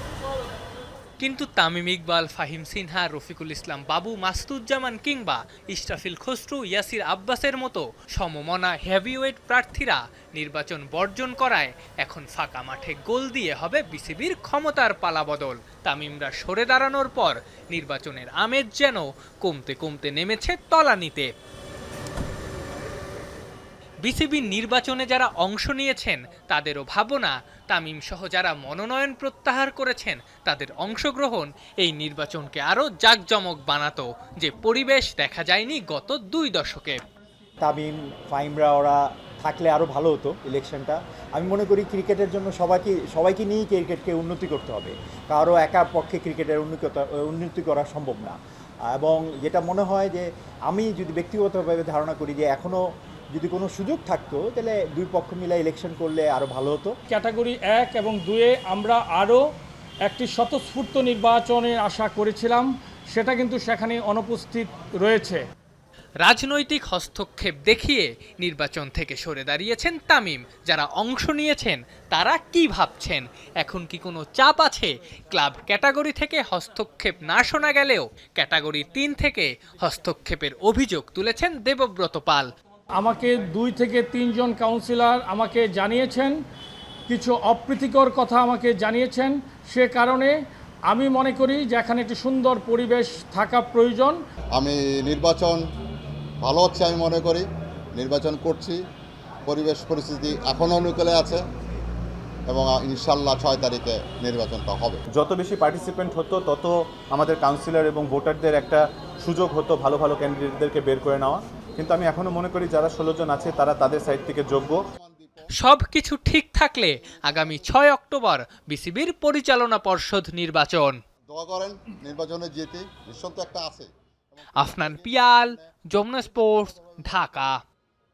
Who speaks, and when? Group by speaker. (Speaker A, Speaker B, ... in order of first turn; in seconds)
Speaker A: 1.2-21.3, 24.0-37.0, 66.2-82.5, 115.5-121.0, 124.6-127.6
Speaker B: 37.6-48.4, 48.9-56.9
Speaker C: 57.1-59.4, 60.1-65.4, 83.0-86.3, 87.1-90.3, 90.9-94.2
Speaker D: 94.5-95.6, 96.4-98.8, 99.5-101.5, 102.5-105.0, 114.5-115.5, 117.0-117.7, 121.3-127.6
Speaker E: 105.1-114.8